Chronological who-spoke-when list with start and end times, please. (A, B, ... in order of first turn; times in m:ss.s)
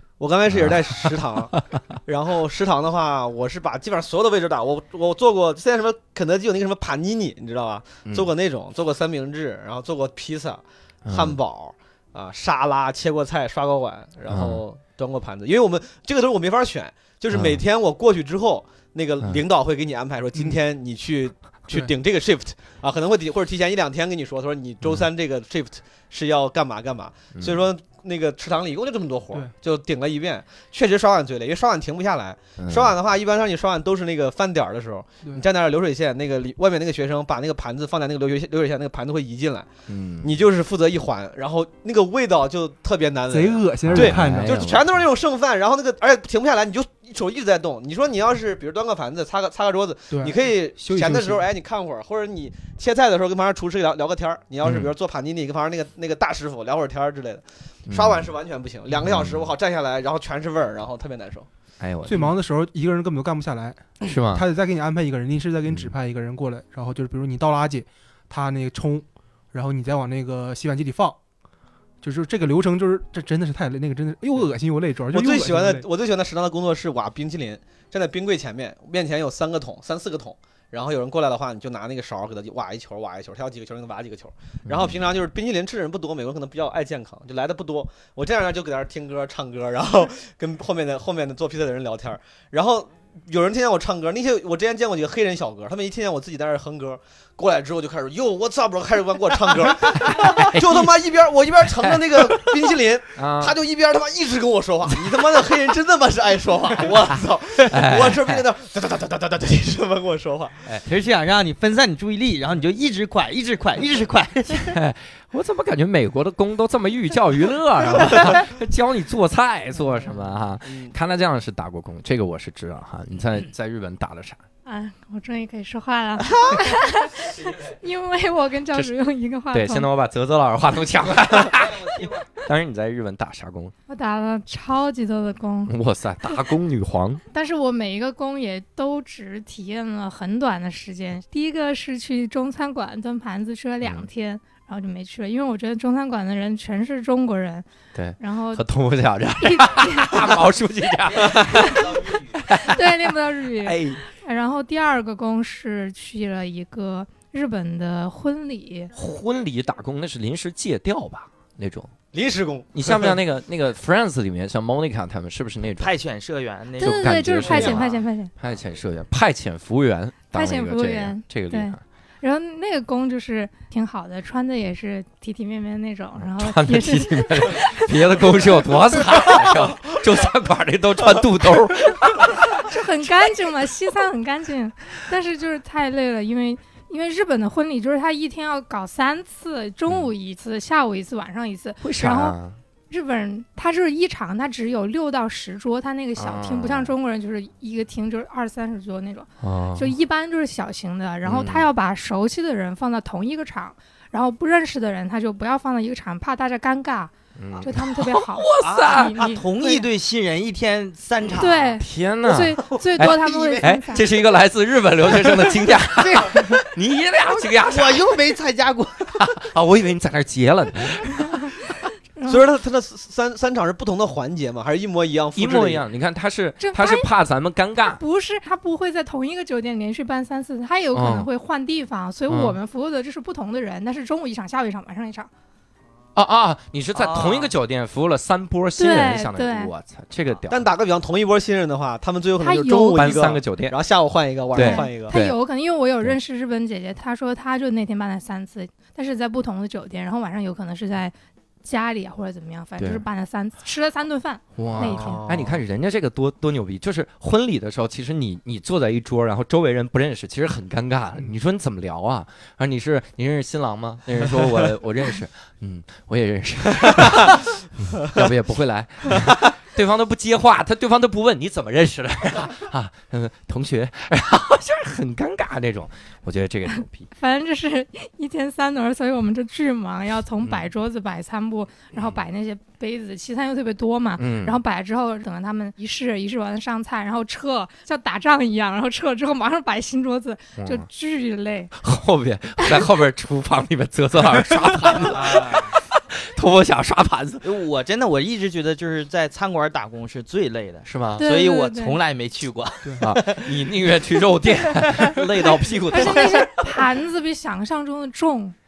0:00.2-0:39.7 A
0:00.5-0:01.2 B
0:11.0-0:11.4 B
0:14.3-0:14.6 B
0:17.3-0:17.6 B
0:27.3-0:27.6 B
0:32.6-0:32.9 B
0:39.9-0:40.4 B
0:40.2-1:01.5 A
0:43.3-0:44.6 C
0:43.9-0:45.0 B
0:50.1-0:51.4 C
0:54.6-0:54.9 B
0:57.9-0:58.3 B
0:59.0-0:59.5 B
1:01.8-1:02.3 B
1:02.0-1:11.2 C
1:04.0-1:04.5 B
1:05.7-1:05.9 B
1:12.0-1:15.9 C
1:15.1-1:50.6 A
1:24.7-1:25.0 B
1:39.9-1:41.0 B
1:41.7-1:43.6 B
1:46.8-1:48.4 B
1:50.8-1:54.7 D
1:54.6-2:04.4 B
2:04.6-2:09.9 E
2:09.5-2:13.7 B
2:13.9-2:15.7 E
2:15.7-2:17.2 B
2:17.3-2:27.7 E
2:23.8-2:24.1 B
2:27.9-2:34.0 B
2:28.2-2:28.6 E
2:29.4-2:30.4 E
2:31.2-2:38.9 E
2:38.9-2:41.9 B
2:42.1-2:43.2 A
2:42.7-2:45.9 B
2:45.8-2:48.0 D
2:46.8-2:48.3 E
2:46.8-2:51.8 B
2:50.3-2:58.5 E
2:56.2-3:03.1 B
3:02.2-3:12.4 E
3:11.8-3:12.6 B
3:12.9-3:29.9 E
3:16.2-3:16.9 B
3:19.4-3:19.9 B
3:21.2-3:21.7 B
3:27.4-3:29.2 B
3:28.6-3:31.6 D
3:31.4-3:34.1 E
3:31.8-3:38.1 B
3:32.7-3:33.7 D
3:35.8-3:36.6 D
3:37.6-3:39.2 D
3:39.2-3:41.3 B
3:41.2-3:41.6 E
3:42.2-3:42.4 E
3:42.2-3:45.8 A
3:45.3-3:48.0 B
3:46.6-3:47.1 E
3:47.8-3:55.3 E
3:50.9-3:51.3 B
3:52.3-3:52.6 B
3:56.2-4:00.7 B
3:56.9-3:57.5 D
3:58.8-3:59.7 E
4:00.5-4:05.1 A
4:02.4-4:03.3 E
4:02.9-4:03.8 B
4:04.5-4:05.4 B
4:04.5-4:15.2 E
4:12.8-4:13.0 B
4:14.6-4:37.1 B
4:14.8-4:15.6 A
4:37.2-4:51.7 E
4:40.4-4:40.7 B
4:44.2-4:44.6 B
4:50.6-4:50.8 B
4:51.8-4:57.4 B
4:55.0-4:55.7 D
4:57.4-5:03.9 D
5:00.8-5:01.2 B
5:01.2-5:02.0 E
5:03.0-5:06.8 B
5:04.7-5:06.1 D
5:05.9-5:08.5 E